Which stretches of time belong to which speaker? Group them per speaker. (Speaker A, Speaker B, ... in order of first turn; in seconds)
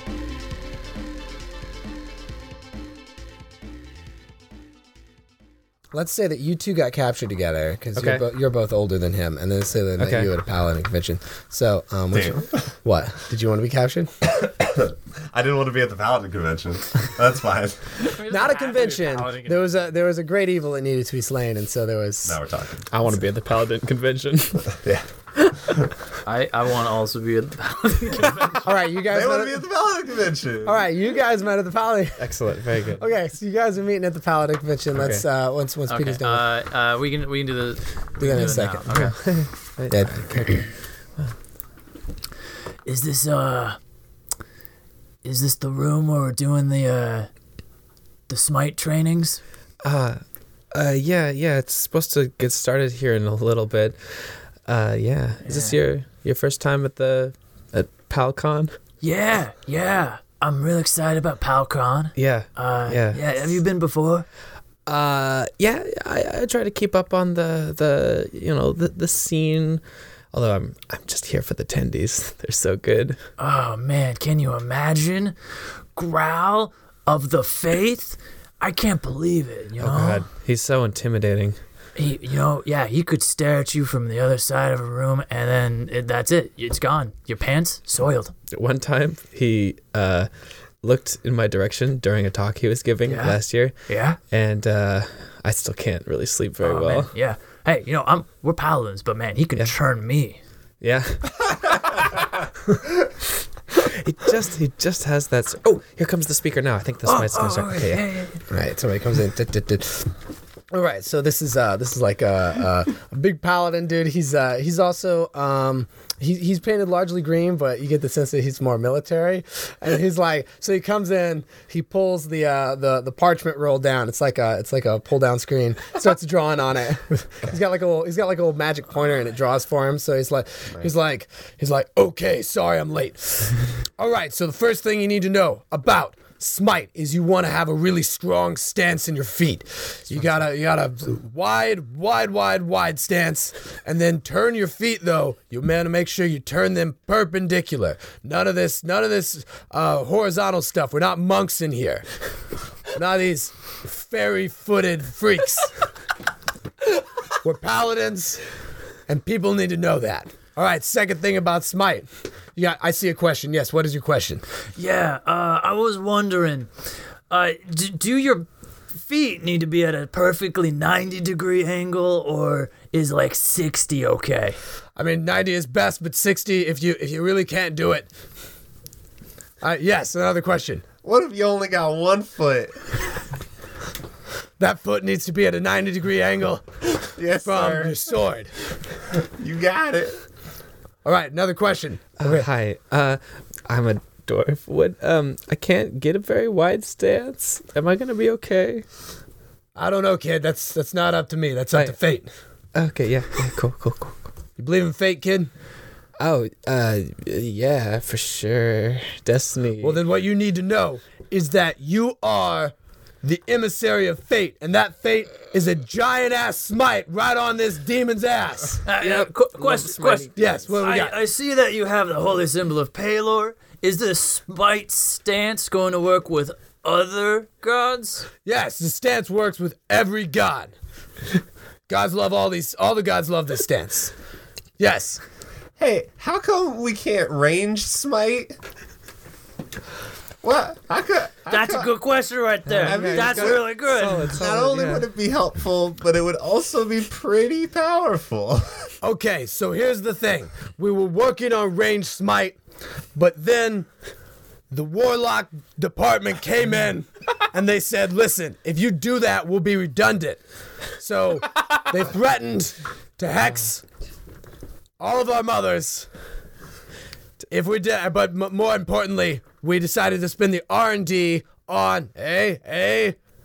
Speaker A: 5.9-14.1, 18.3-22.4, 28.6-29.6, 30.6-32.3, 33.0-36.5, 38.2-38.9, 39.9-40.5, 108.5-110.1, 110.7-152.1, 152.9-155.7, 157.4-158.4, 159.1-164.4, 175.0-178.1, 179.6-180.8, 184.6-188.5, 191.0-192.5, 199.8-202.3, 204.6-205.5, 209.8-218.9, 220.3-221.2, 228.4-230.7, 231.9-234.1, 234.8-235.2, 249.0-252.6, 253.2-253.9, 254.7-260.4, 261.0-263.8, 265.0-266.1, 267.5-273.2
Speaker B: 8.0-8.2, 10.0-10.3, 22.9-24.8, 32.2-33.1, 34.9-35.3, 38.4-40.7, 49.8-50.2, 50.7-58.8, 62.2-63.5, 64.9-73.2, 79.8-81.6, 88.5-90.3, 90.8-93.8, 94.3-97.1, 100.8-101.8, 103.7-108.0, 192.2-198.8, 202.7-204.2, 206.2-210.0, 219.0-220.8, 242.7-245.1
Speaker C: 12.1-12.6, 14.4-18.1, 22.2-22.9, 24.8-25.1, 29.0-30.8, 181.0-182.9, 187.2-188.1, 189.2-190.2, 235.8-238.6, 240.4-241.9, 242.8-243.7, 244.4-248.9
Speaker D: 18.0-19.7, 26.2-28.7, 35.9-39.2, 42.9-43.8, 45.2-47.3, 48.3-49.4, 55.5-55.8, 59.0-64.3, 73.4-75.3, 76.0-80.3, 82.0-88.3, 93.0-94.2, 96.6-100.4, 107.1-108.4, 164.8-166.7, 167.3-174.6, 218.9-228.3, 241.5-244.4